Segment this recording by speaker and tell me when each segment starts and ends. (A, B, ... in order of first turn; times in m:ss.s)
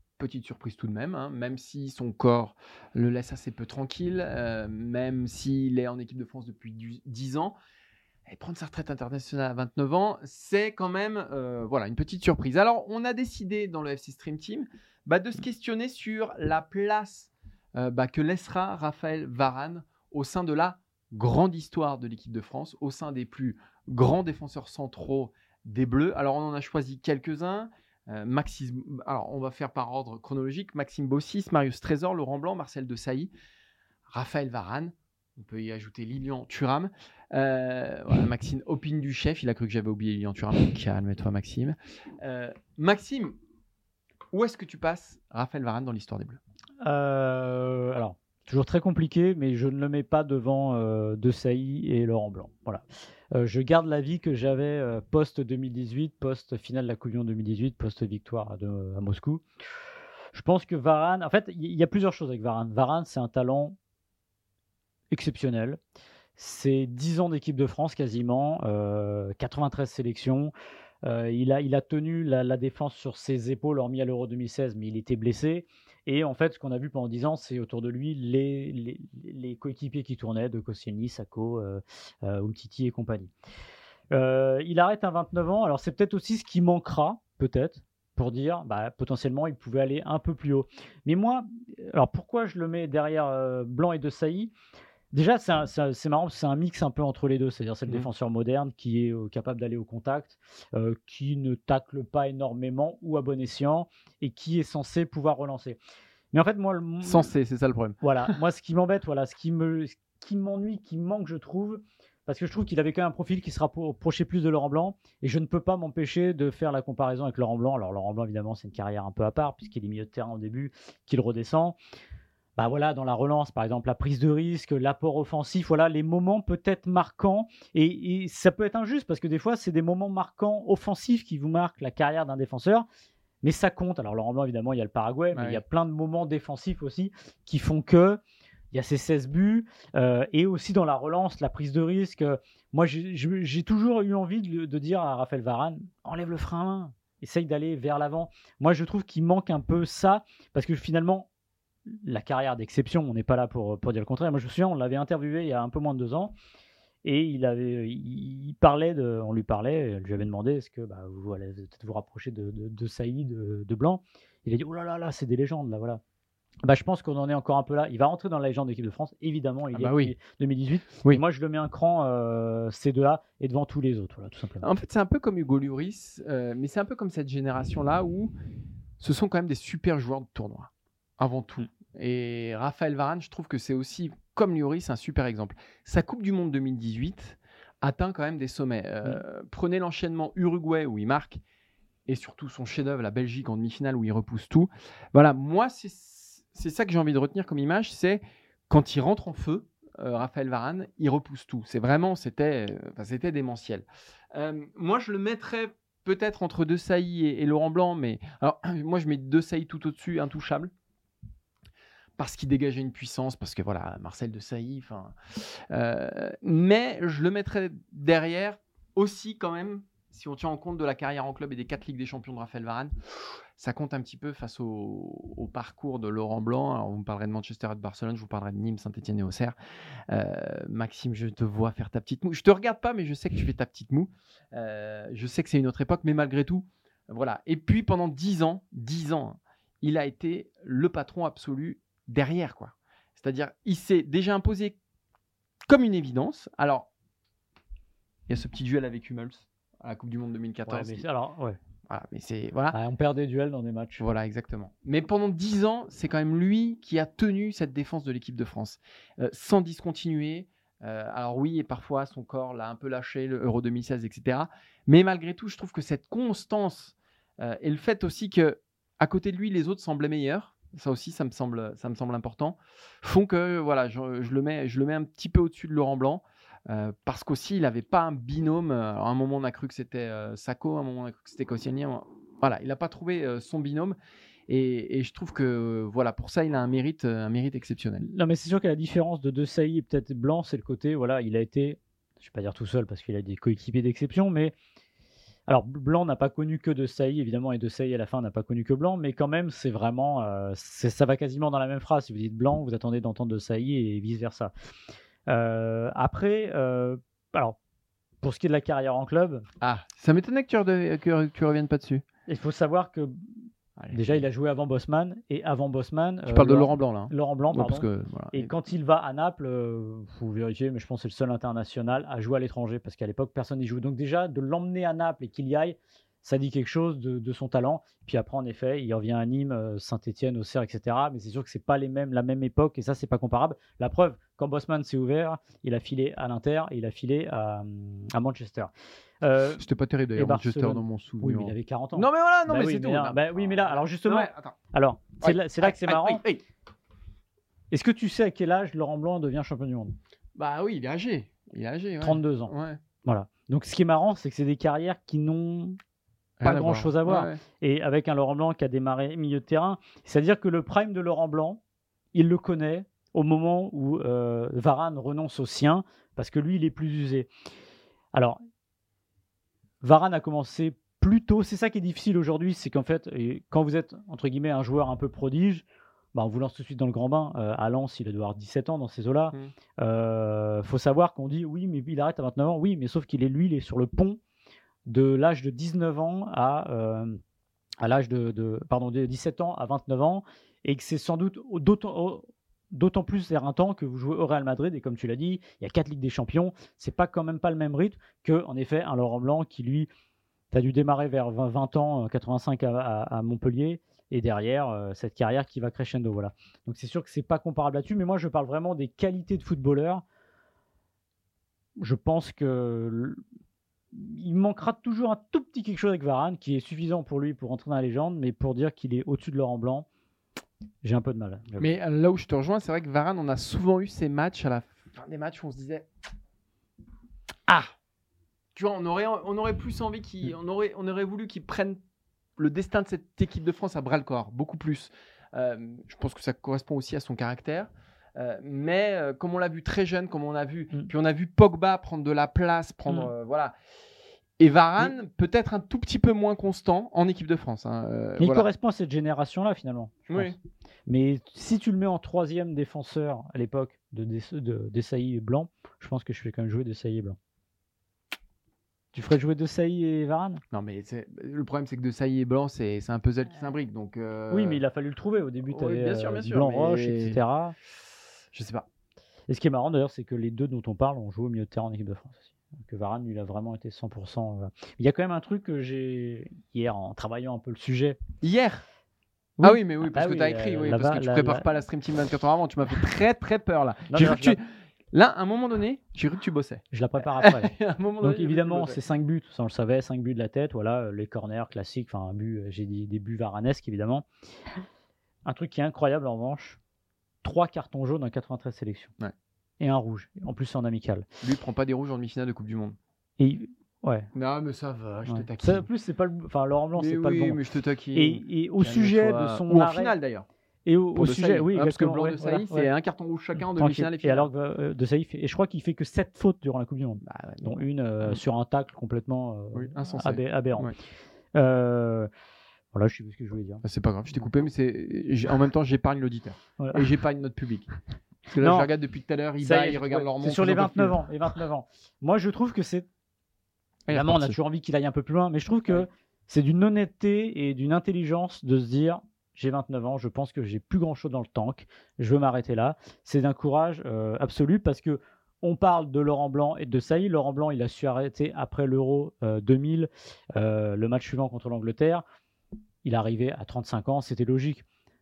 0:00.2-0:07.6 A
0:08.3-0:33.3 A
0:34.1-0:43.4 A
0:44.3-0:46.4 A
0:46.8-0:52.8 B
0:53.3-0:59.4 B
1:00.3-1:03.8 B
1:05.1-1:05.8 B
1:06.4-1:10.5 B
1:11.0-1:23.3 B
1:24.1-1:34.5 B
1:35.1-1:45.8 B
1:46.3-1:47.3 B
1:47.0-1:48.3 A
1:48.0-2:01.8 B
2:02.6-2:12.8 B
2:13.4-2:18.2 B
2:15.3-2:15.6 A
2:18.7-2:31.3 B
2:31.9-2:36.3 B
2:37.0-2:46.0 B
2:46.6-2:54.7 B
2:49.7-2:50.1 A
2:54.6-2:58.3 A
2:59.0-3:11.4 A
3:12.1-3:30.7 A
3:32.2-3:42.9 A
3:43.6-3:49.5 A
3:50.1-4:04.8 A
4:05.7-4:06.9 A
4:08.3-4:11.0 A
4:10.7-4:11.6 B
4:11.9-4:12.8 A
4:12.7-4:14.0 B
4:14.0-4:44.0 A
4:44.5-4:48.0 A
4:48.0-4:54.5 B
4:55.5-5:04.5 B
5:05.3-5:07.6 B
5:08.2-5:09.4 B
5:09.6-5:12.0 A
5:12.3-5:13.2 B
5:13.8-5:14.2 A
5:13.9-5:38.7 B
5:16.3-5:18.5 A
5:39.2-5:39.6 B
5:39.6-5:44.6 A
5:40.2-5:46.2 B
5:45.2-5:46.4 A
5:47.7-5:49.9 B
5:50.3-5:52.8 A
5:52.0-5:55.8 B
5:56.4-5:57.4 A
5:56.4-6:01.6 B
6:02.1-6:07.3 B
6:08.1-6:08.4 B
6:09.8-6:24.2 B
6:24.9-6:27.2 B
6:27.8-6:39.9 B
6:40.5-6:50.0 B
6:51.8-6:53.2 B
6:53.9-6:59.8 B
7:00.8-7:01.7 B
7:01.6-7:05.9 A
7:08.5-7:11.8 A
7:12.4-7:23.5 A
7:24.4-7:28.5 A
7:28.2-7:37.2 B
7:30.1-7:30.4 A
7:38.9-7:40.4 B
7:40.5-7:44.6 A
7:44.3-7:47.5 B
7:45.4-7:47.2 A
7:48.3-7:48.6 A
7:49.3-7:58.0 B
7:58.2-7:58.6 A
7:59.4-8:01.4 B
7:59.4-8:08.8 A
8:03.9-8:04.4 B
8:06.7-8:14.1 B
8:15.2-8:16.6 B
8:17.2-8:18.9 B
8:19.6-8:21.0 B
8:21.2-8:22.8 A
8:23.2-8:24.1 B
8:24.1-8:25.7 A
8:25.1-8:27.4 B
8:26.8-8:30.3 A
8:27.9-8:29.9 B
8:30.6-8:32.7 B
8:30.9-8:34.3 A
8:33.5-8:40.7 B
8:37.0-8:38.2 A
8:39.5-8:40.7 A
8:41.3-8:42.1 B
8:42.7-8:43.6 B
8:43.6-8:47.7 A
8:46.6-8:46.8 B
8:48.3-8:51.0 A
8:48.4-8:48.7 B
8:49.4-8:52.9 B
8:53.9-8:54.4 A
8:53.9-9:12.0 B
9:12.8-9:14.6 B